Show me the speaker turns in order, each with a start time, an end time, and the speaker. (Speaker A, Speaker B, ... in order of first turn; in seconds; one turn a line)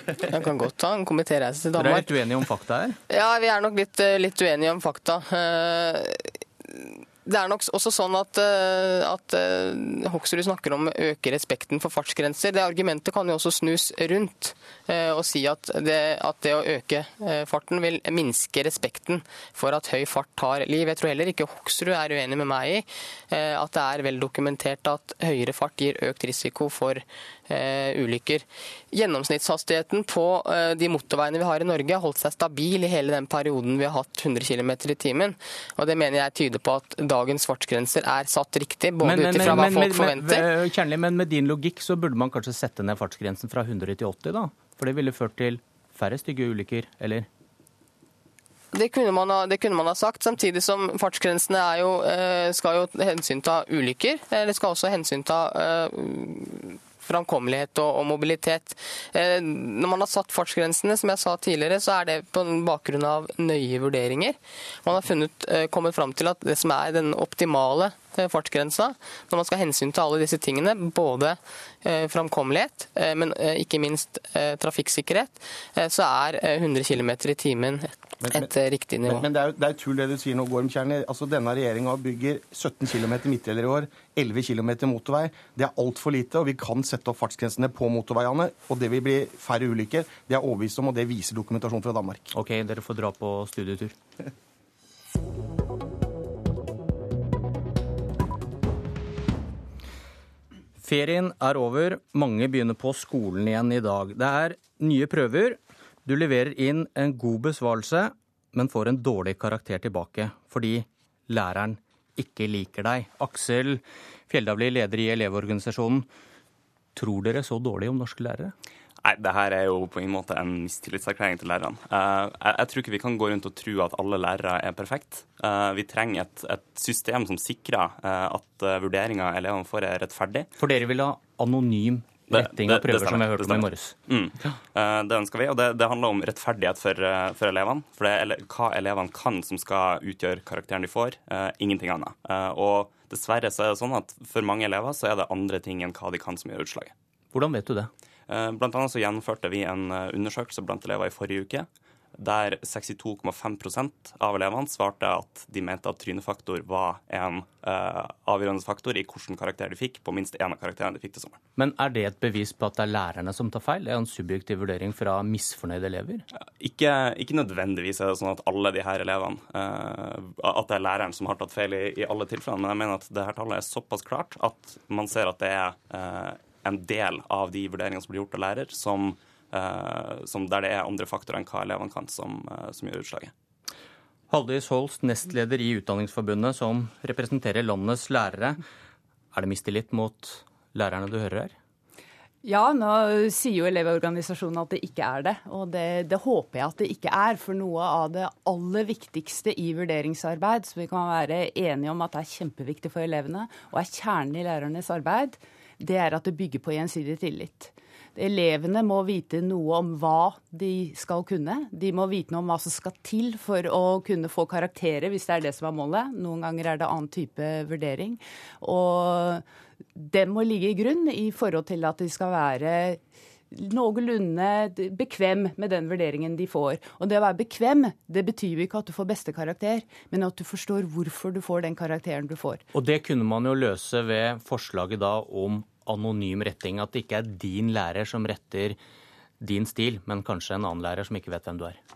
Speaker A: 0.2-2.0
Speaker B: 1.7-3.0
Speaker A: 3.1-40.4
Speaker B: 39.0-47.3
Speaker A: 48.7-79.3
Speaker C: 79.0-92.3
Speaker B: 92.3-93.9
Speaker B: 100.8-116.1
Speaker B: 116.9-118.5
Speaker D: 119.0-130.5
Speaker B: 130.6-133.9
Speaker D: 132.3-146.9
Speaker B: 147.3-147.9
Speaker D: 148.3-161.4
Speaker B: 161.6-166.2
Speaker D: 166.3-183.3
Speaker B: 184.3-188.6
Speaker B: 189.3-191.5
Speaker E: 192.4-219.4
Speaker E: 219.9-223.0
Speaker E: 223.5-232.6
Speaker B: 232.7-238.8
Speaker B: 239.4-241.8